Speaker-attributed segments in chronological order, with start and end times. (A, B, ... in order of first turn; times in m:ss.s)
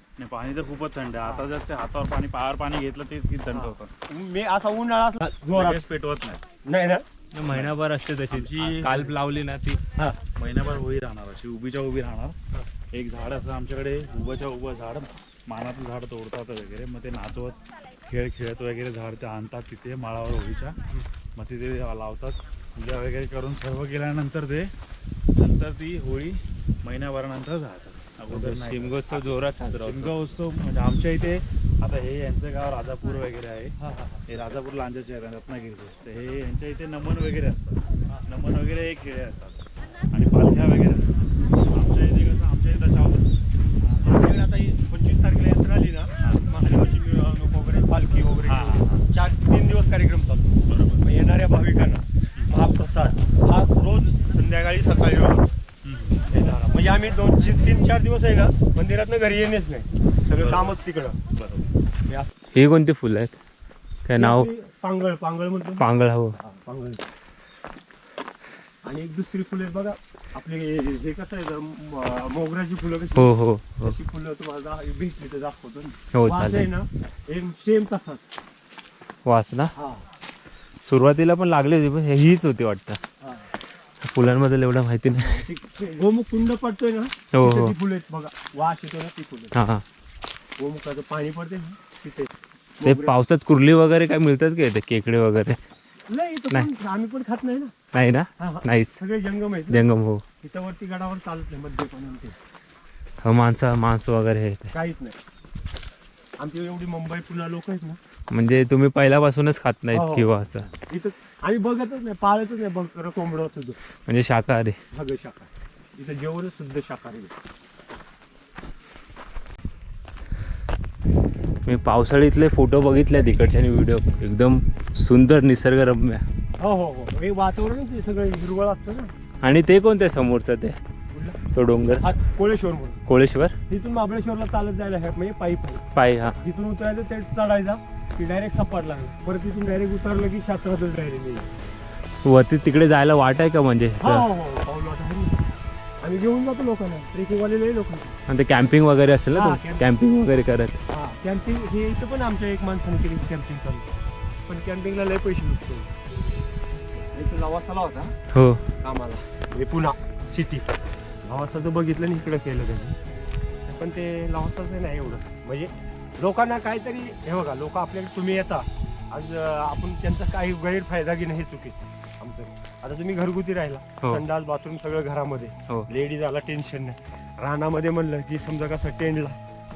0:00.2-0:03.9 A
0:03.5-0:05.8 B
0:05.5-0:06.4 A
0:06.6-0:07.0 B
0:07.3-0:09.8 C
0:07.5-0:07.7 A
0:08.3-0:09.1 A
0:10.4-0:12.4 A
0:12.9-0:20.8 A
0:21.4-0:24.7 A
0:25.4-0:33.7 A
0:28.3-0:30.1 C
0:33.8-0:34.2 B
0:34.3-0:39.6 A
0:40.1-0:43.3 A
0:43.8-0:55.5 B
0:46.2-0:46.4 A
0:48.4-0:49.1 A
0:50.7-0:51.0 A
0:55.8-0:56.2 A
0:56.3-1:01.2 B
1:00.3-1:00.8 A
1:01.3-1:01.6 A
1:02.5-1:03.3 C
1:04.0-1:04.5 C
1:04.2-1:07.0 B
1:05.8-1:06.4 C
1:08.8-1:18.2 B
1:13.2-1:13.9 C
1:16.1-1:16.7 C
1:19.2-1:19.7 C
1:19.8-1:20.0 B
1:20.8-1:23.0 C
1:23.2-1:23.5 B
1:24.0-1:25.4 C
1:25.1-1:29.5 B
1:27.3-1:27.7 C
1:29.5-1:29.8 C
1:30.6-1:33.1 B
1:32.8-1:35.6 C
1:36.1-1:37.7 B
1:37.9-1:39.0 C
1:38.4-1:39.8 B
1:39.7-1:40.2 C
1:40.4-1:42.3 B
1:43.2-1:44.7 C
1:44.7-1:45.2 B
1:46.4-1:48.0 B
1:48.3-1:50.6 C
1:49.9-1:53.8 B
1:54.1-1:54.8 C
1:54.9-1:57.3 B
2:01.6-2:06.2 C
2:06.6-2:09.1 B
2:09.4-2:10.8 C
2:11.1-2:11.4 B
2:11.5-2:12.0 C
2:12.0-2:13.0 B
2:13.1-2:13.5 C
2:13.7-2:15.8 B
2:15.9-2:16.4 C
2:16.4-2:21.5 B
2:22.2-2:24.2 C
2:24.0-2:25.4 B
2:26.0-2:28.2 B
2:28.3-2:30.8 C
2:29.3-2:29.8 B
2:30.9-2:33.9 B
2:34.5-2:35.9 B
2:37.1-2:38.1 B
2:38.3-2:38.6 C
2:38.8-2:40.7 B
2:41.2-2:42.9 B
2:43.6-2:59.4 B